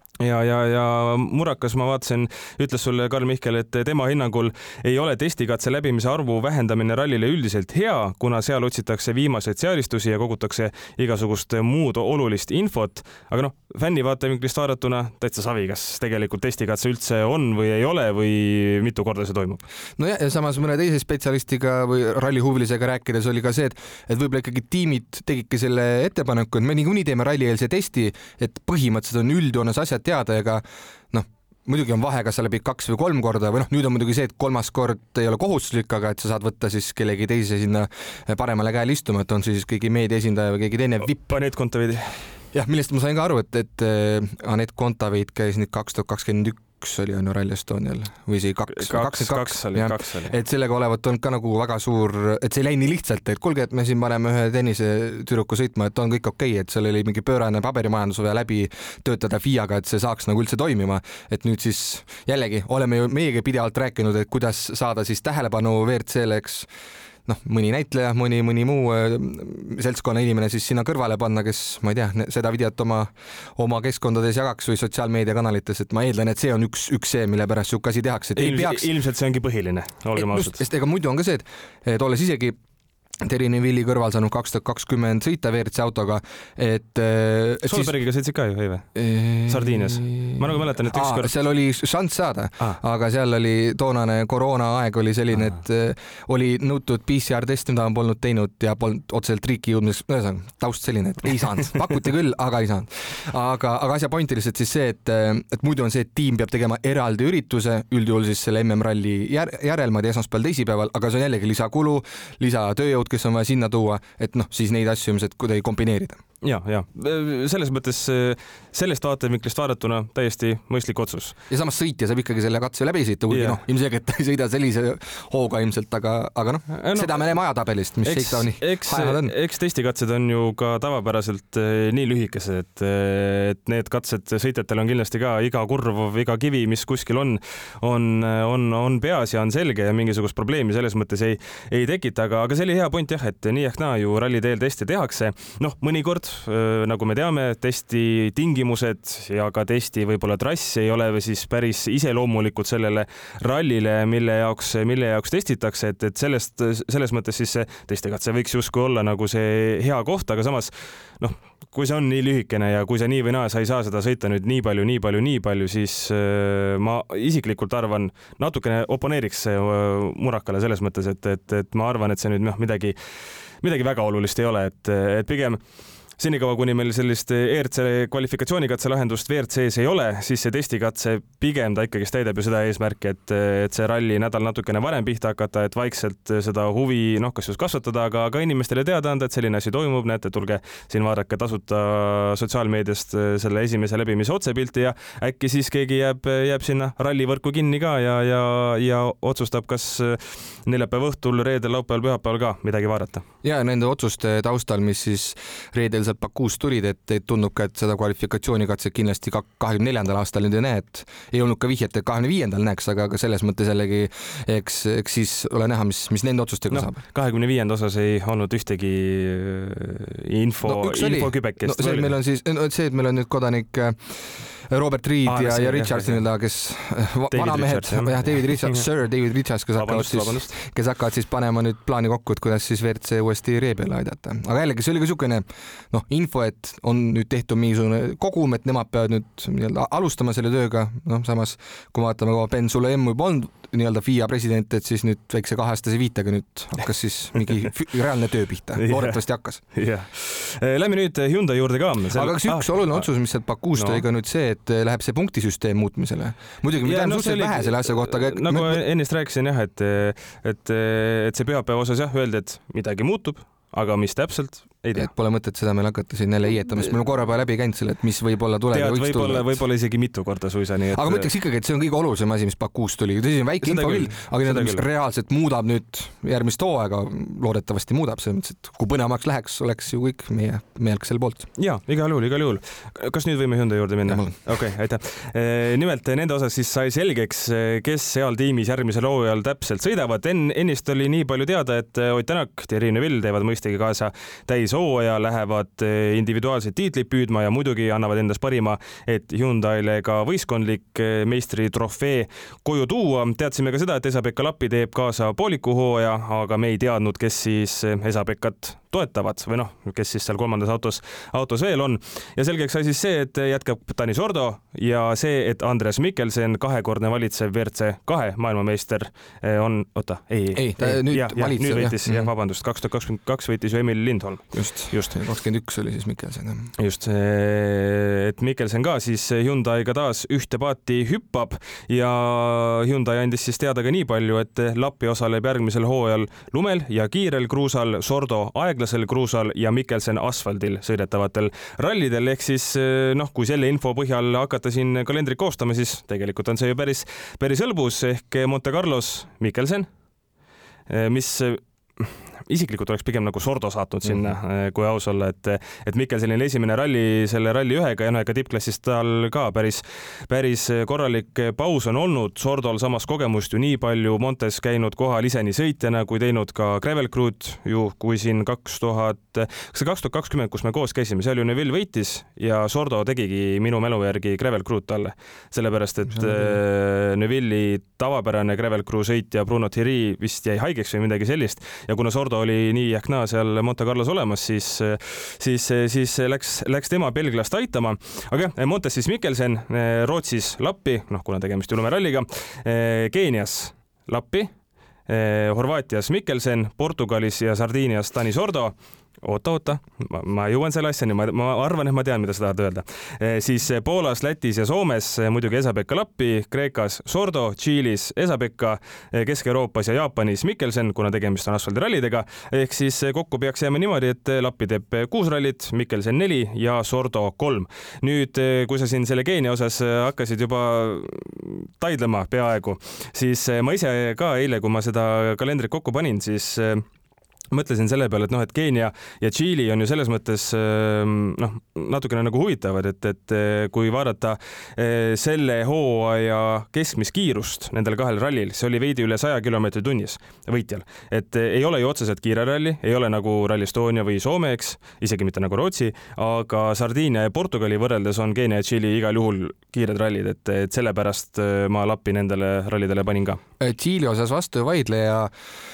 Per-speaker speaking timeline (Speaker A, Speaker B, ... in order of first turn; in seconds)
Speaker A: 0.2-19.6, 41.1-42.3, 48.7-50.3, 78.3-80.6, 87.7-88.9, 89.5-91.4, 116.4-121.3, 123.3-123.6, 126.7-127.2, 128.0-172.9, 173.6-175.6, 176.2-203.2, 216.7-222.1, 225.2-226.2, 227.3-228.8, 229.8-230.5, 248.8-249.2, 249.7-253.1, 253.8-254.0, 256.8-265.1, 268.7-271.3, 273.6-274.8, 281.6-325.1, 326.8-349.9, 350.9-394.5, 395.1-426.9, 427.5-453.4
Speaker B: 20.0-41.3, 42.5-66.7, 67.2-78.9, 80.1-82.5, 83.2-88.0, 88.9-116.2, 121.5-129.3, 203.4-217.0, 220.6-249.6, 252.1-258.8, 264.9-269.5, 270.9-281.5, 284.1-284.3, 320.5-322.3, 324.5-326.7, 376.2-376.5, 453.6-455.3